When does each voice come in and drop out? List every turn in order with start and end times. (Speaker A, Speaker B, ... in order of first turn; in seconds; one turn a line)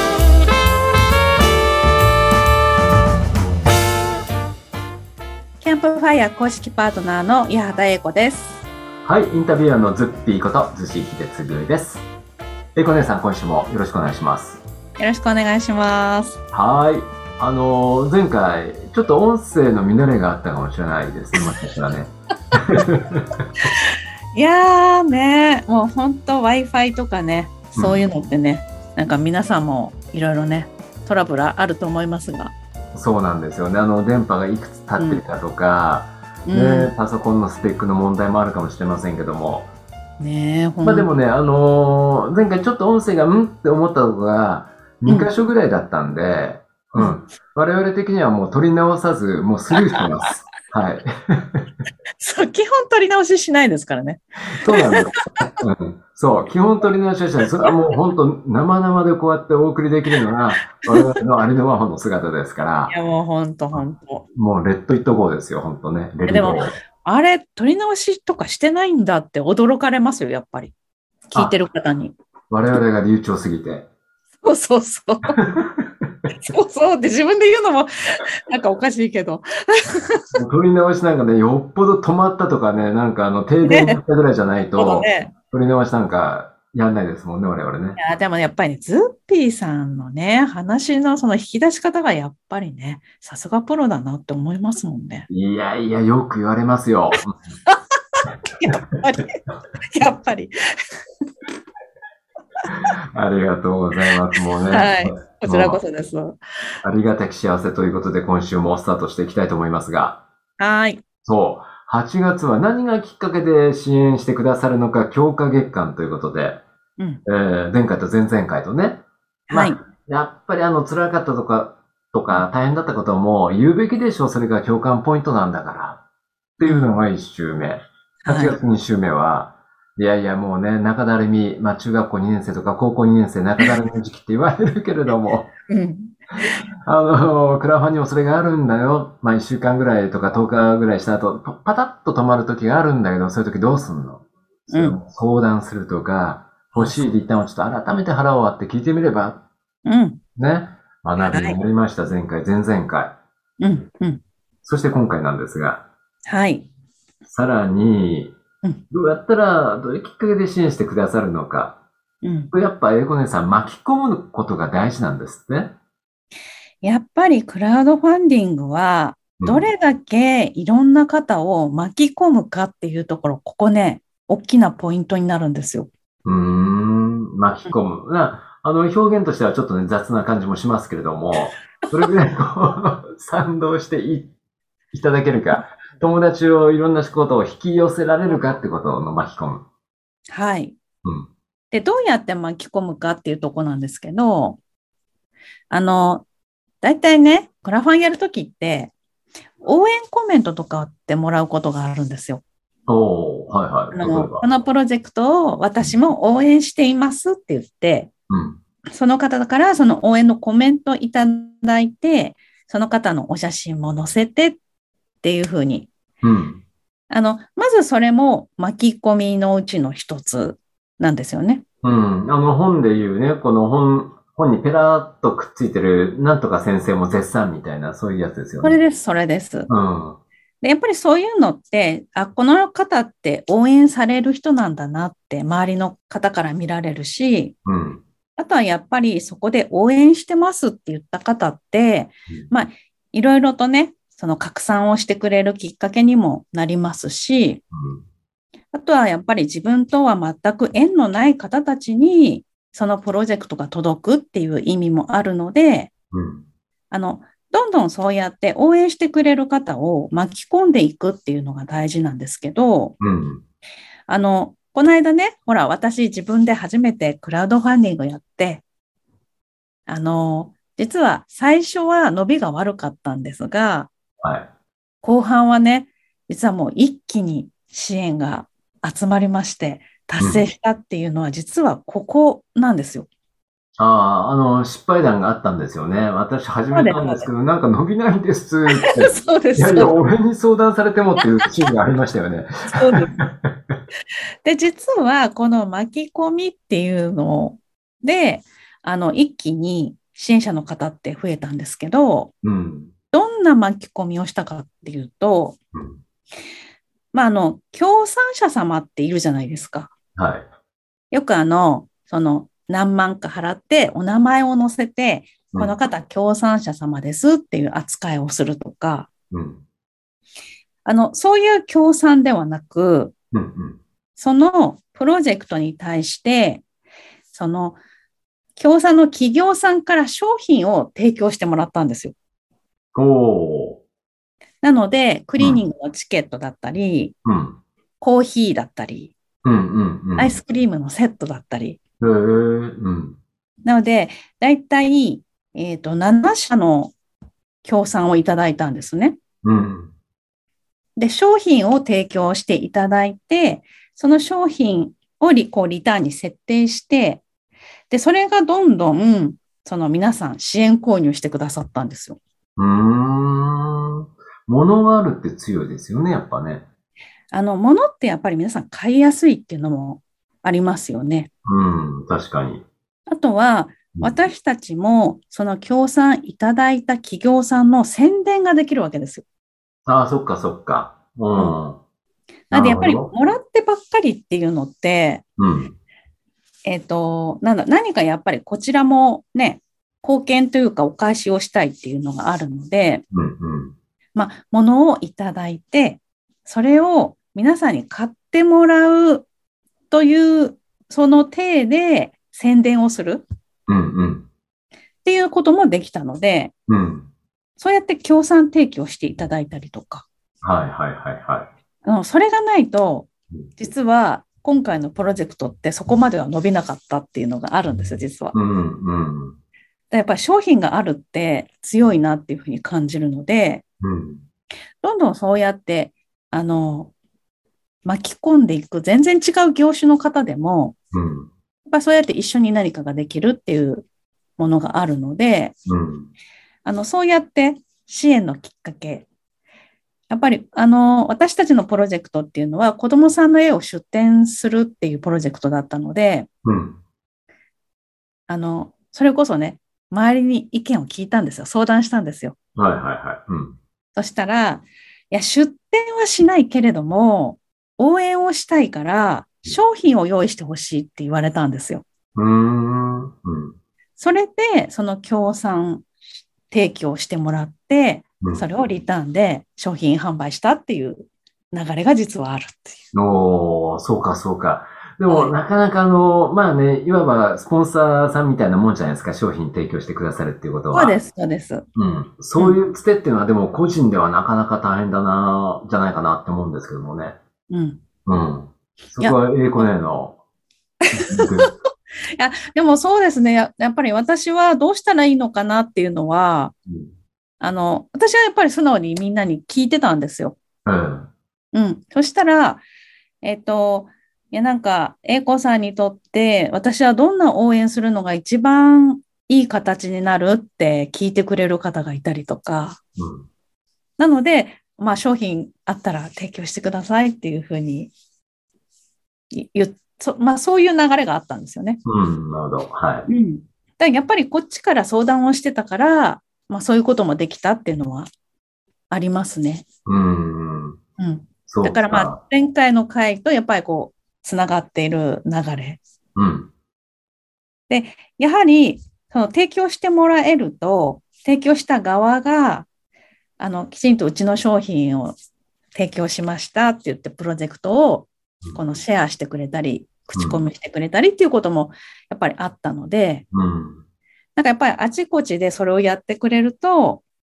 Speaker A: 5.6-8.6
Speaker B: 9.0-12.1
Speaker B: 12.7-14.6
Speaker A: 15.0-16.4
Speaker B: 16.5-23.2
Speaker A: 23.6-32.5
Speaker B: 27.7-28.0
Speaker B: 32.9-39.7
Speaker A: 35.0-35.2
Speaker A: 36.5-36.9
Speaker A: 40.2-41.1
Speaker B: 40.8-51.6
Speaker A: 52.2-55.5
Speaker B: 54.6-62.9
Speaker A: 62.9-64.2
Speaker B: 64.3-66.8
Speaker A: 66.2-70.7
Speaker A: 71.3-72.1
Speaker B: 72.5-73.9
Speaker A: 74.4-75.4
Speaker B: 75.4-75.8
Speaker A: 76.3-80.2
Speaker B: 80.3-88.0
Speaker A: 83.6-84.0
Speaker A: 84.8-85.3
Speaker A: 88.0-95.3
Speaker B: 95.3-97.3
Speaker A: 97.7-100.9
Speaker B: 102.7-105.8
Speaker A: 104.7-106.4
Speaker B: 106.8-110.2
Speaker A: 110.6-111.0
Speaker B: 111.2-116.6
Speaker B: 117.2-126.0
Speaker A: 119.5-119.8
Speaker B: 126.6-135.5
Speaker A: 126.6-126.9
Speaker A: 128.2-128.6
Speaker A: 135.7-136.6
Speaker B: 136.4-149.4
Speaker A: 144.7-145.0
Speaker A: 146.7-147.1
Speaker A: 149.8-150.2
Speaker B: 150.4-153.2
Speaker A: 151.3-151.6
Speaker A: 153.6-154.2
Speaker B: 154.6-155.8
Speaker A: 156.2-156.7
Speaker B: 157.2-158.3
Speaker B: 158.9-161.8
Speaker A: 162.2-162.5
Speaker B: 162.5-165.7
Speaker A: 166.8-175.9
Speaker B: 169.4-169.7
Speaker B: 176.2-184.3
Speaker B: 184.9-189.6
Speaker A: 190.3-190.8
Speaker A: 191.7-194.6
Speaker A: 195.7-196.2
Speaker A: 196.8-198.9
Speaker A: 199.6-202.4
Speaker B: 202.9-204.4
Speaker A: 203.9-208.1
Speaker B: 208.3-208.6
Speaker A: 208.9-214.6
Speaker A: 215.2-215.9
Speaker B: 216.2-216.6
Speaker A: 217.1-221.6
Speaker B: 221.8-228.8
Speaker A: 228.6-229.7
Speaker B: 229.7-230.2
Speaker A: 230.6-237.5
Speaker B: 237.7-238.0
Speaker A: 238.4-247.6
Speaker B: 247.7-248.0
Speaker A: 248.7-255.9
Speaker B: 256.1-256.4
Speaker A: 256.9-262.9
Speaker B: 263.0-263.4
Speaker A: 264.1-268.6
Speaker A: 269.9-273.9
Speaker B: 274.2-274.5
Speaker A: 275.0-283.1
Speaker B: 280.2-280.4
Speaker B: 283.8-293.7
Speaker A: 286.7-287.3
Speaker A: 288.7-289.9
Speaker A: 292.7-293.1
Speaker A: 294.4-302.3
Speaker B: 302.4-302.9
Speaker A: 303.1-305.6
Speaker B: 305.7-306.0
Speaker A: 307.1-309.9
Speaker B: 310.1-310.5
Speaker A: 311.1-319.1
Speaker B: 319.3-319.6
Speaker A: 320.8-323.1
Speaker B: 323.3-323.8
Speaker A: 324.1-326.6
Speaker A: 327.3-327.8
Speaker A: 328.6-332.1
Speaker B: 332.9-333.8
Speaker A: 334.6-337.1
Speaker B: 337.2-337.6
Speaker A: 338.0-339.1
Speaker B: 339.4-340.3
Speaker A: 340.2-341.8
Speaker B: 342.0-343.2
Speaker A: 343.6-346.9
Speaker A: 347.6-349.2
Speaker B: 349.4-349.9
Speaker A: 350.9-357.2
Speaker A: 357.9-362.2
Speaker B: 362.6-366.6
Speaker A: 367.3-371.3
Speaker B: 371.4-372.6
Speaker A: 373.1-379.2
Speaker B: 379.9-381.8
Speaker A: 382.5-385.2
Speaker B: 382.5-383.1
Speaker B: 385.4-385.8
Speaker A: 386.6-393.0
Speaker B: 393.1-393.7
Speaker A: 394.1-399.2
Speaker A: 399.9-403.2
Speaker B: 403.7-404.3
Speaker A: 405.0-406.5
Speaker B: 406.7-407.1
Speaker A: 407.6-410.1
Speaker B: 410.4-411.5
Speaker A: 411.8-418.3
Speaker B: 418.3-419.4
Speaker A: 419.9-423.6
Speaker B: 423.8-424.2
Speaker A: 424.8-426.9
Speaker A: 427.8-430.8
Speaker B: 430.9-431.3
Speaker A: 431.7-433.9
Speaker A: 434.4-435.6
Speaker B: 435.7-436.1
Speaker A: 436.6-439.1
Speaker A: 440.1-446.3
Speaker B: 446.4-446.8
Speaker A: 448.3-452.4
Speaker B: 452.6-453.6
Speaker A: 453.9-461.8
Speaker B: 462.1-463.5
Speaker A: 464.0-465.9
Speaker A: 466.5-472.8
Speaker B: 472.9-481.0
Speaker A: 475.1-475.3
Speaker A: 480.7-481.6
Speaker B: 481.7-487.2
Speaker A: 487.5-487.8
Speaker B: 488.1-490.2
Speaker A: 489.0-489.6
Speaker A: 490.9-491.5
Speaker B: 490.9-491.5
Speaker A: 492.1-496.5
Speaker A: 497.4-500.4
Speaker B: 500.6-501.1
Speaker A: 501.5-502.6
Speaker A: 503.2-512.8
Speaker B: 513.0-513.3
Speaker A: 514.0-517.9
Speaker A: 519.3-521.8
Speaker B: 521.8-523.1
Speaker A: 523.1-528.1
Speaker A: 528.9-529.6
Speaker B: 529.9-530.8
Speaker A: 531.0-535.8
Speaker B: 531.5-532.2
Speaker B: 536.1-536.5
Speaker A: 537.7-542.7
Speaker A: 543.4-545.1
Speaker A: 545.7-553.2
Speaker B: 550.1-550.4
Speaker B: 553.3-553.8
Speaker A: 554.4-557.0